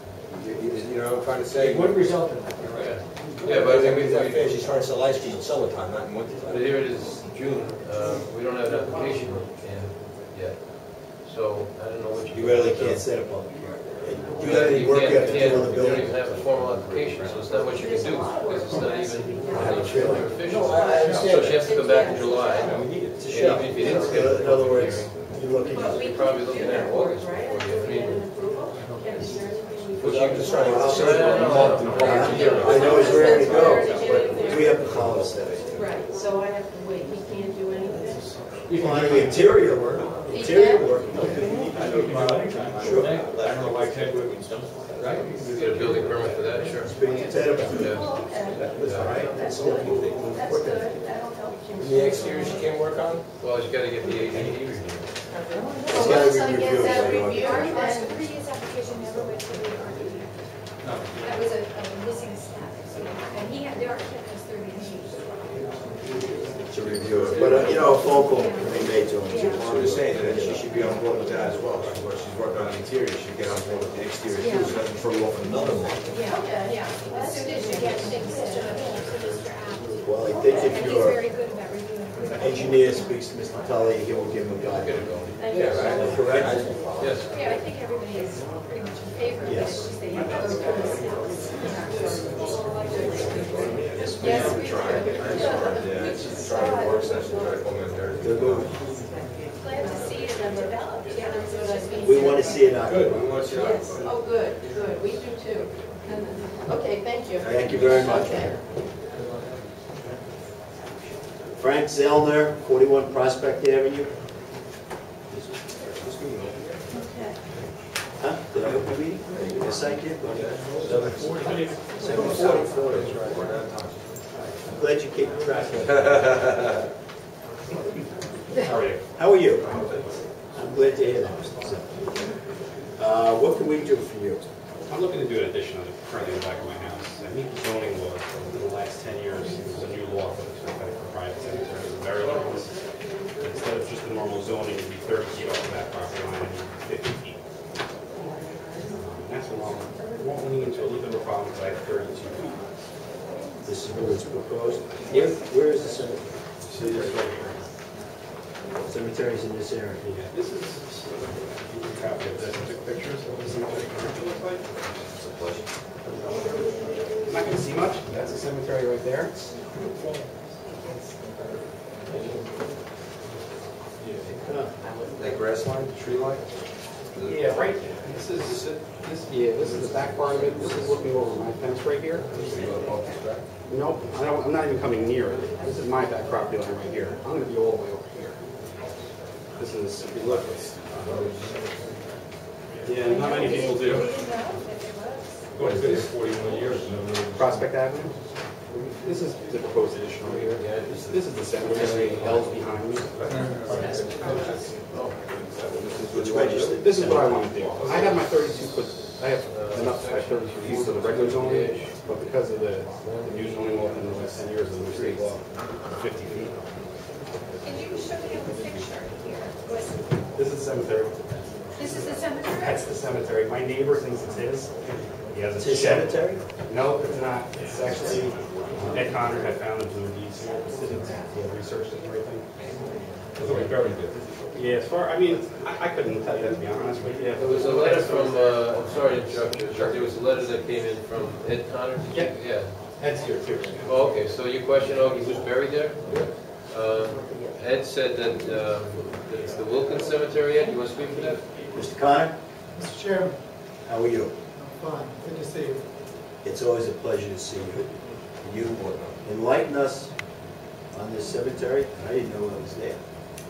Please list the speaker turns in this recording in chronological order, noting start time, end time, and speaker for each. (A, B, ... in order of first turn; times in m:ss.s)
0:00.3-0:02.2 A
0:01.5-0:03.0 B
0:02.7-0:04.5 C
0:03.4-0:06.7 A
0:06.4-0:13.0 C
0:12.3-0:17.0 D
0:14.4-0:14.7 A
0:14.4-0:25.1 C
0:17.5-0:22.7 E
0:19.5-0:20.4 D
0:20.4-0:21.7 A
0:22.5-0:23.2 A
0:23.1-0:26.2 D
0:25.7-0:30.8 E
0:25.8-0:28.2 C
0:30.0-0:33.9 A
0:30.1-0:35.8 D
0:30.8-0:34.2 C
0:32.4-0:34.8 E
0:35.7-0:38.3 E
0:38.7-0:41.5 D
0:38.7-0:39.4 B
0:40.3-0:41.8 E
0:41.4-0:46.6 B
0:42.7-0:43.2 D
0:45.4-0:47.0 C
0:46.8-0:48.0 D
0:47.0-0:52.7 E
0:47.6-0:48.1 C
0:48.6-0:49.2 A
0:48.8-0:49.2 C
0:48.8-0:50.9 D
0:51.8-0:53.2 A
0:53.4-0:55.0 C
0:55.3-0:58.2 E
0:55.8-1:00.3 F
0:55.9-0:57.6 D
1:00.8-1:01.1 B
1:01.2-1:05.4 F
1:06.7-1:10.7 D
1:07.0-1:07.5 A
1:07.3-1:09.7 F
1:09.5-1:16.0 A
1:14.4-1:14.8 F
1:16.1-1:23.2 F
1:16.2-1:19.0 E
1:20.0-1:21.2 D
1:22.3-1:25.1 D
1:24.7-1:25.3 C
1:25.4-1:26.3 E
1:25.5-1:27.3 A
1:25.7-1:26.8 D
1:27.0-1:27.2 C
1:27.2-1:32.1 F
1:29.4-1:29.9 D
1:30.3-1:37.6 E
1:33.0-1:33.2 F
1:33.3-1:38.7 A
1:34.0-1:35.5 F
1:38.2-1:38.7 D
1:39.6-1:42.7 F
1:39.7-1:42.9 E
1:42.0-1:43.4 D
1:42.7-1:44.1 A
1:43.5-1:48.6 E
1:47.4-1:48.5 D
1:47.7-1:48.0 A
1:51.6-1:54.1 D
1:55.3-1:56.7 A
1:56.9-1:57.4 E
1:58.2-2:01.4 D
2:00.3-2:04.0 A
2:02.0-2:02.7 D
2:04.6-2:06.5 D
2:08.6-2:09.0 G
2:09.2-2:09.7 D
2:09.6-2:10.1 G
2:10.5-2:11.9 D
2:13.0-2:14.4 D
2:14.9-2:22.7 G
2:23.4-2:27.4 G
2:28.9-2:32.6 G
2:33.6-2:36.2 D
2:36.7-2:37.6 G
2:38.8-2:40.1 D
2:40.1-2:40.9 G
2:41.6-2:44.6 G
2:45.1-2:45.6 A
2:46.0-2:46.6 G
2:47.2-2:49.3 G
2:55.2-2:56.4 A
2:57.1-2:57.7 A
2:57.2-3:02.3 G
2:58.5-2:58.8 A
3:00.2-3:00.9 A
3:02.4-3:03.4 A
3:03.7-3:08.4 G
3:09.6-3:11.1 G
3:11.1-3:11.3 A
3:12.8-3:14.1 G
3:13.0-3:15.4 F
3:15.6-3:16.0 G
3:15.6-3:17.0 B
3:17.3-3:18.1 G
3:18.8-3:24.4 G
3:20.2-3:22.7 C
3:26.1-3:27.5 D
3:26.7-3:35.4 G
3:29.5-3:31.9 C
3:33.0-3:35.3 C
3:36.0-3:36.5 G
3:37.6-3:39.9 F
3:40.3-3:46.2 G
3:41.8-3:42.9 F
3:45.6-3:46.4 D
3:46.7-3:52.4 G
3:53.4-4:00.1 G
3:57.4-4:02.7 C
4:03.0-4:04.2 G
4:03.8-4:06.2 C
4:06.7-4:11.4 C
4:11.7-4:12.3 D
4:12.7-4:13.4 H
4:13.8-4:14.3 D
4:14.6-4:15.8 H
4:16.4-4:17.9 D
4:18.4-4:19.2 A
4:19.2-4:20.1 D
4:20.9-4:23.0 D